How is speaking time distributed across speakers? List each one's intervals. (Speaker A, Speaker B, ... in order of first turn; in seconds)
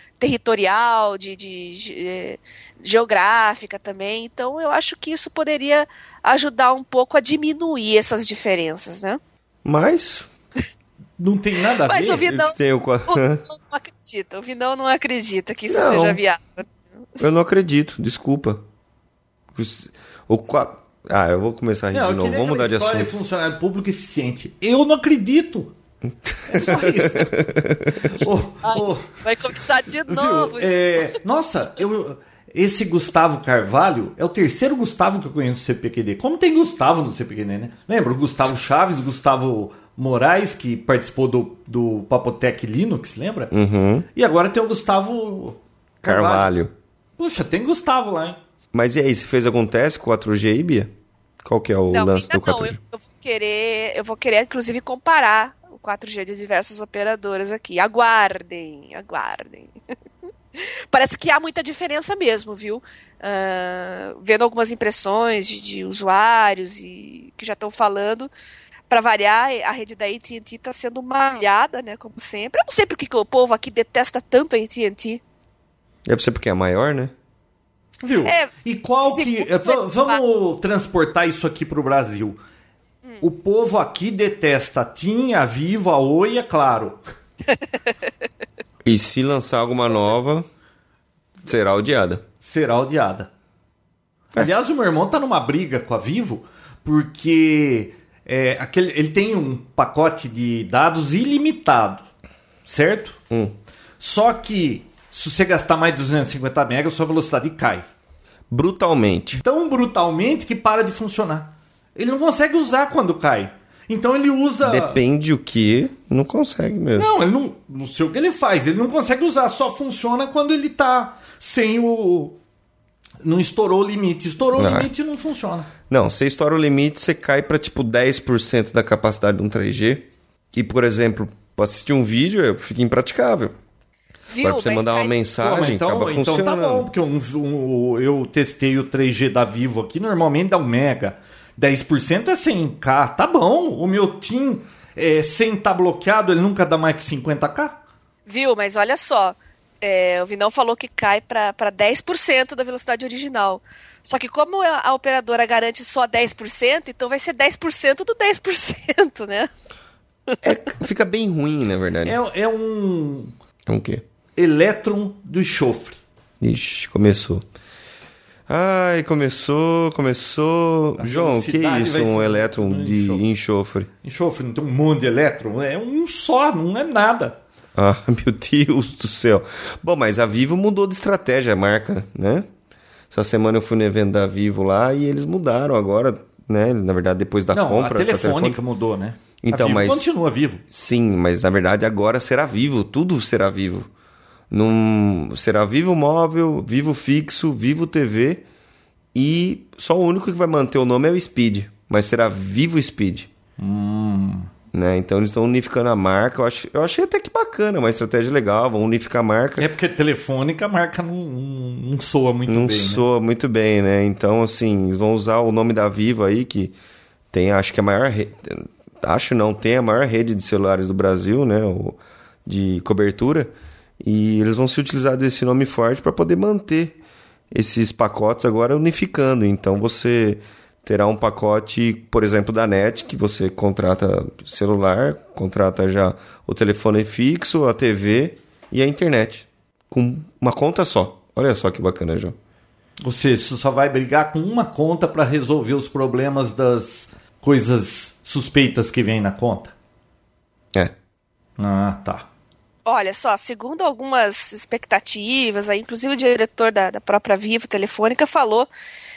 Speaker A: 0.2-9.2, 11.8-12.6, 13.1-16.7, 28.6-31.0, 51.9-59.7, 60.6-68.3, 68.9-75.2, 78.2-78.5, 79.0-80.2, 134.3-135.1, 148.3-159.5, 160.3-160.6, 252.9-258.7
Speaker B: 9.6-10.3, 12.3-13.4, 15.7-16.2, 17.2-18.6, 19.5-23.1, 26.2-28.2, 43.5-44.1, 46.0-46.7, 48.7-50.9, 51.4-52.8, 76.1-77.1, 88.8-90.5, 91.4-92.2, 108.5-109.4, 114.6-117.1, 124.6-124.9, 125.9-133.5, 134.4-136.9, 160.4-162.2, 163.7-164.0, 166.4-167.4, 168.5-173.9, 177.8-182.5, 183.1-188.6, 189.4-190.1, 190.7-193.9, 194.5-198.4, 199.1-203.3, 204.7-209.7, 212.5-216.8, 217.3-227.0, 227.5-242.4
Speaker C: 11.2-12.3, 21.9-25.7, 26.5-27.4, 28.0-29.1, 29.9-43.5, 44.1-46.5, 47.2-48.4, 78.0-82.4, 83.2-87.0, 92.4-93.3, 94.3-102.0, 102.7-103.2, 104.0-107.8, 109.4-115.0, 117.0-122.4, 123.2-125.7, 135.4-147.8, 162.0-163.3, 164.4-166.0, 171.0-173.2, 174.0-177.4, 187.5-190.6, 203.6-204.5, 209.6-213.0, 243.0-249.7, 251.6-252.3